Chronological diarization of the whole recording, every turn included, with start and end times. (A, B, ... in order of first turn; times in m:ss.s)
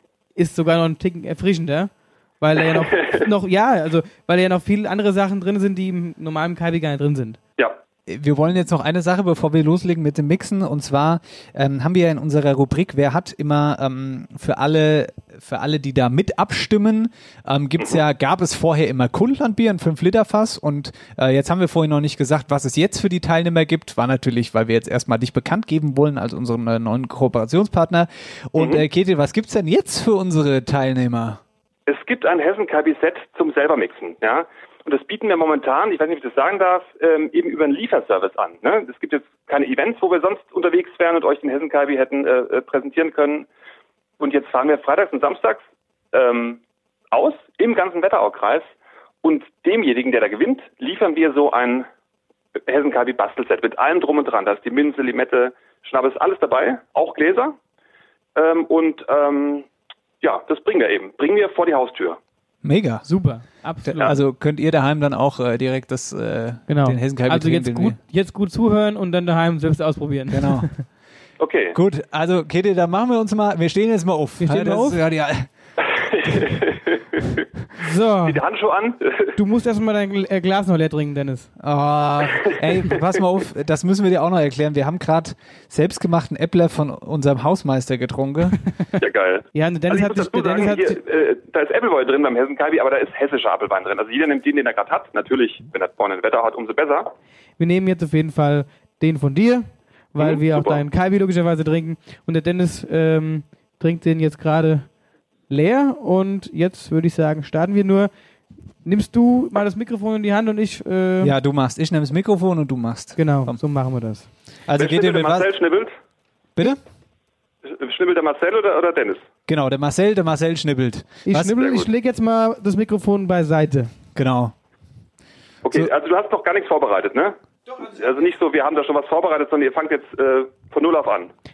0:00.4-0:07.4 A
0:08.1-0:31.4 B
0:28.6-0:28.8 C
0:31.9-0:43.5 C
0:44.2-0:46.6 C
0:47.1-0:48.7 C
0:49.2-0:51.9 C
0:52.7-0:57.5 C
0:58.4-0:59.7 C
1:00.2-1:02.2 C
1:02.6-1:03.0 B
1:03.0-1:04.2 A
1:03.8-1:08.0 B
1:06.7-1:10.8 A
1:10.3-1:10.7 B
1:11.4-1:11.8 C
1:11.7-1:15.5 B
1:14.4-1:15.0 A
1:16.0-1:17.2 C
1:16.3-1:16.5 B
1:17.8-1:18.4 A
1:18.2-1:19.3 C
1:19.4-1:21.5 A
1:21.6-1:28.6 B
1:29.0-1:37.1 C
1:29.5-1:31.0 A
1:37.6-1:44.9 A
1:40.2-1:40.8 C
1:45.5-1:48.1 A
1:48.8-1:51.3 A
1:51.2-1:53.6 B
1:53.2-1:54.3 A
1:54.7-1:55.5 B
1:54.8-1:55.9 C
1:57.6-1:59.2 C
1:59.5-2:01.6 B
2:01.2-2:03.9 A
2:01.5-2:01.9 C
2:04.1-2:04.5 B
2:05.6-2:07.4 C
2:07.7-2:08.3 A
2:07.9-2:11.3 C